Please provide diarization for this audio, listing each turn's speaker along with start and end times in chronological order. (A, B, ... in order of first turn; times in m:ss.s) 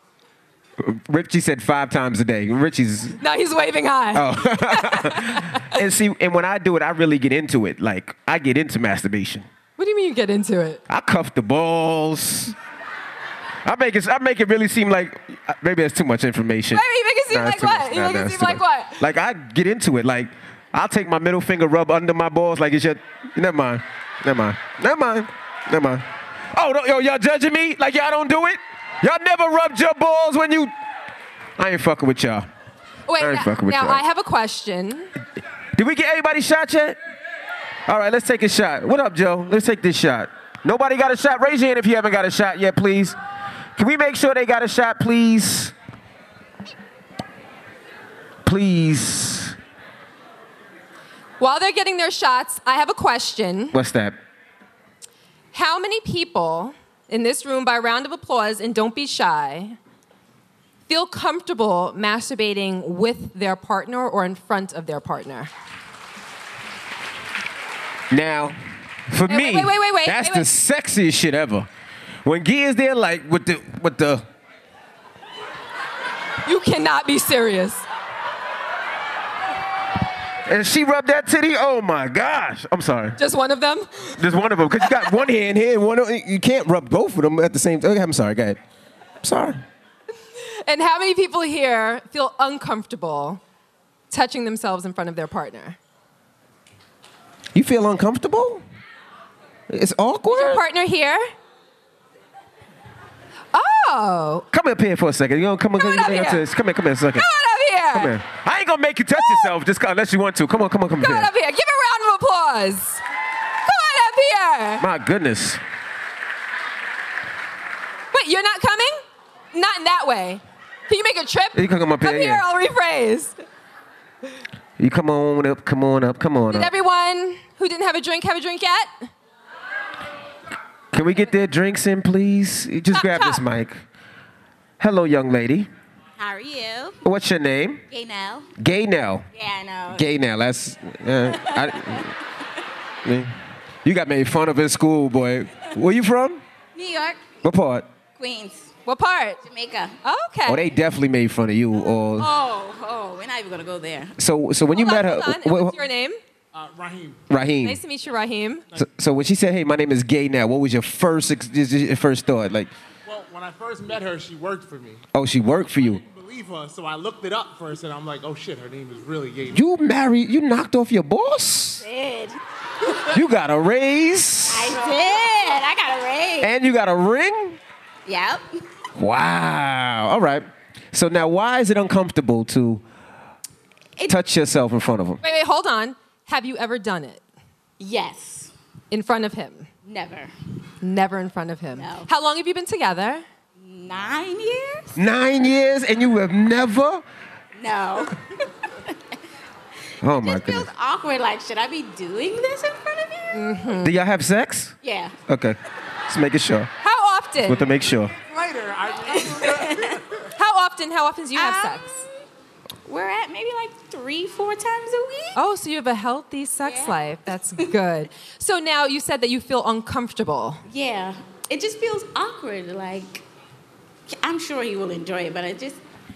0:00.8-0:03.2 A
0:03.2-0:05.8 B
0:04.1-0:09.5 A
0:09.8-0:10.8 B
0:10.9-0:12.6 A
0:13.6-0:30.7 A
0:16.7-0:19.0 B
0:31.6-0:32.5 A
0:33.1-0:35.1 B
0:33.2-0:34.0 A
0:35.8-0:37.0 A
0:37.9-0:43.2 A
0:43.8-0:45.7 A
0:48.4-0:49.6 A
0:51.4-0:53.7 B
0:53.7-0:54.2 A
0:55.5-0:59.8 B
1:00.9-1:05.5 B
1:08.1-1:08.6 A
1:09.1-1:11.7 A
1:09.3-1:10.5 B
1:12.2-1:14.2 A
1:16.4-1:17.8 B
1:20.4-1:23.2 A
1:23.2-1:24.2 B
1:24.2-1:28.6 A
1:24.8-1:25.2 B
1:29.2-1:29.6 A
1:30.4-1:33.4 B
1:34.1-1:35.8 B
1:37.5-1:38.6 A
1:39.7-1:40.6 A
1:40.3-1:41.2 B
1:43.5-1:44.4 B
1:44.5-1:47.2 A
1:45.8-1:46.4 B
1:47.2-1:48.1 B
1:47.9-1:51.3 A
1:49.2-1:49.5 B
1:51.0-1:53.0 B
1:53.6-1:54.8 B
1:54.8-1:55.6 A
1:58.1-1:59.0 B
1:59.5-2:03.4 B
2:01.5-2:02.4 A
2:04.8-2:06.7 A
2:06.5-2:09.1 B
2:10.9-2:13.8 A
2:12.9-2:13.4 B
2:14.8-2:15.7 A
2:16.2-2:17.0 C
2:17.0-2:17.8 A
2:17.9-2:18.5 C
2:18.6-2:19.3 A
2:19.3-2:20.0 C
2:19.9-2:22.1 A
2:21.3-2:22.1 C
2:23.0-2:26.4 A
2:26.7-2:27.3 C
2:27.4-2:27.9 A
2:28.2-2:28.7 C
2:28.8-2:29.4 B
2:29.4-2:30.0 C
2:30.0-2:30.6 B
2:30.4-2:32.3 A
2:32.2-2:34.1 C
2:34.2-2:35.8 A
2:34.7-2:36.2 B
2:36.5-2:37.2 D
2:37.3-2:37.8 A
2:37.6-2:38.6 B
2:38.8-2:42.7 A
2:43.0-2:45.0 D
2:45.1-2:46.0 A
2:45.8-2:49.6 D
2:49.5-2:51.8 A
2:51.8-2:52.4 C
2:53.1-2:54.8 A
2:54.5-2:56.5 C
2:56.4-2:57.6 A
2:58.0-2:58.4 C
2:59.0-3:02.8 A
3:04.1-3:05.2 A
3:05.2-3:07.2 B
3:07.8-3:08.5 C
3:08.9-3:09.7 B
3:09.8-3:10.3 C
3:10.8-3:13.2 B
3:11.8-3:12.1 C
3:13.6-3:15.0 C
3:15.0-3:17.0 A
3:17.6-3:18.9 C
3:20.0-3:20.7 A
3:20.2-3:23.3 C
3:23.3-3:23.9 B
3:23.8-3:24.7 A
3:24.8-3:25.2 C
3:25.3-3:26.7 A
3:26.8-3:27.7 B
3:27.4-3:28.1 A
3:28.3-3:30.0 D
3:29.2-3:30.0 C
3:30.4-3:32.0 B
3:31.4-3:31.9 C
3:32.8-3:35.4 C
3:35.3-3:40.6 B
3:36.6-3:37.0 C
3:40.7-3:43.2 C
3:44.1-3:45.8 C